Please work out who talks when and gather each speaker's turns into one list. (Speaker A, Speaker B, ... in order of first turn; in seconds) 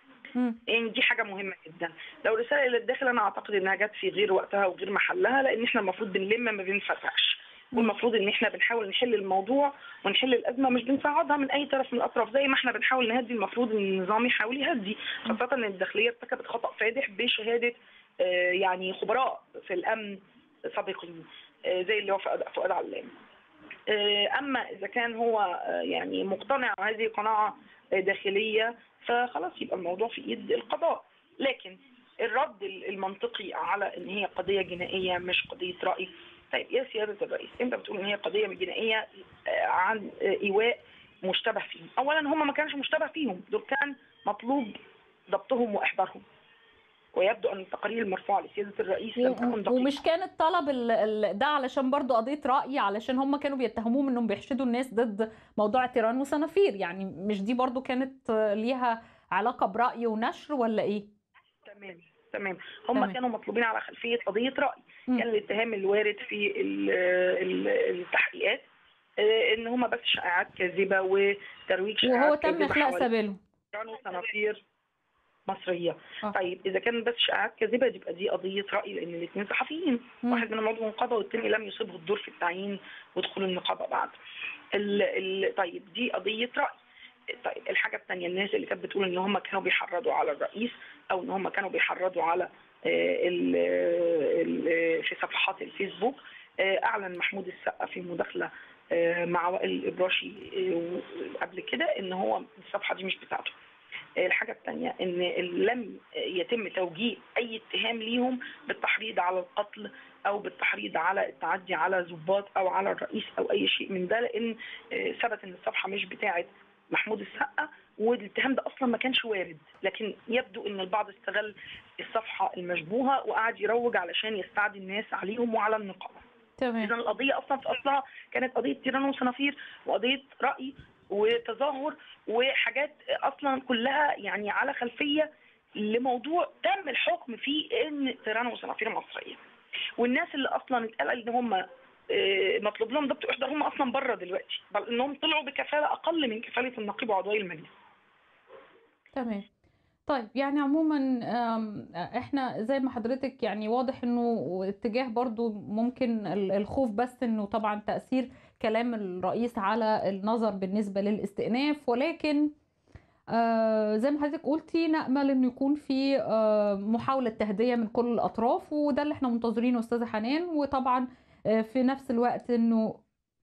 Speaker A: 0.7-20.2, 20.7-23.1, 23.9-44.8, 45.3-46.2, 47.1-50.0, 61.6-68.6, 69.2-73.1, 73.7-74.6, 75.5-84.2, 84.7-86.7, 87.3-103.5, 104.2-126.2, 126.8-139.4, 140.0-147.7
Speaker B: 49.1-61.0, 72.0-73.4, 126.6-126.9, 149.1-149.4, 150.1-162.5, 163.3-173.0